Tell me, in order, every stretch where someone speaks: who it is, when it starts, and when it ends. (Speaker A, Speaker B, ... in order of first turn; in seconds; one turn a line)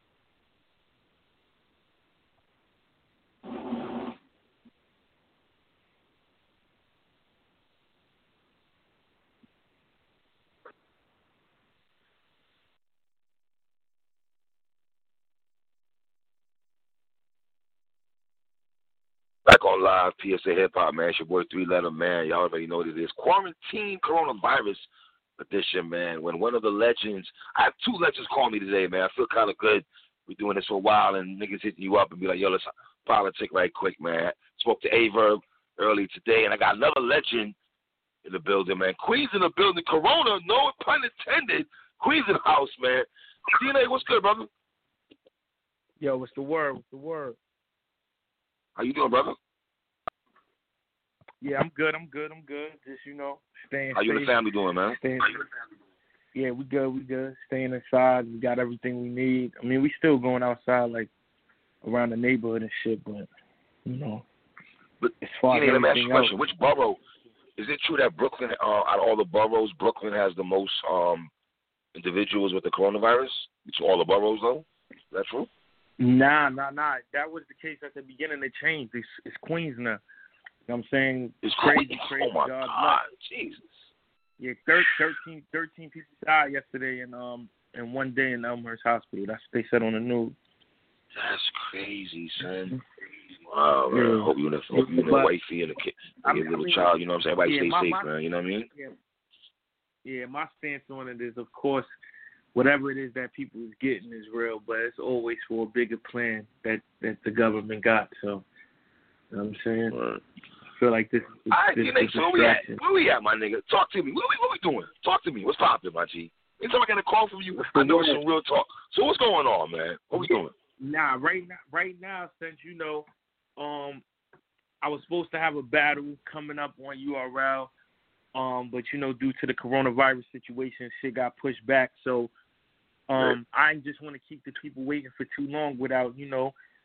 Speaker A: 19.4-24.9
Speaker A: 25.4-37.5
Speaker A: 38.2-44.5
Speaker B: 46.0-47.4
Speaker A: 48.8-49.4
Speaker B: 51.4-54.4
Speaker A: 53.9-55.0
Speaker B: 54.9-55.4
Speaker B: 56.3-61.1
Speaker B: 61.8-63.3
Speaker B: 63.9-64.2
Speaker A: 65.0-67.0
Speaker B: 65.2-66.4
Speaker A: 67.6-71.3
Speaker A: 71.9-75.5
Speaker B: 76.0-80.0
Speaker B: 80.7-83.0
Speaker A: 81.4-83.7
Speaker B: 84.4-90.3
Speaker A: 91.1-92.8
Speaker A: 93.5-98.7
Speaker B: 93.9-95.3
Speaker B: 96.2-96.9
Speaker B: 97.4-98.1
Speaker B: 100.0-101.9
Speaker B: 102.5-108.4
Speaker B: 109.3-110.0
Speaker A: 109.9-110.2
Speaker B: 110.8-112.8
Speaker A: 111.5-120.5
Speaker B: 117.6-118.2
Speaker B: 120.2-124.0
Speaker B: 124.8-127.7
Speaker B: 128.3-132.3
Speaker B: 133.1-136.5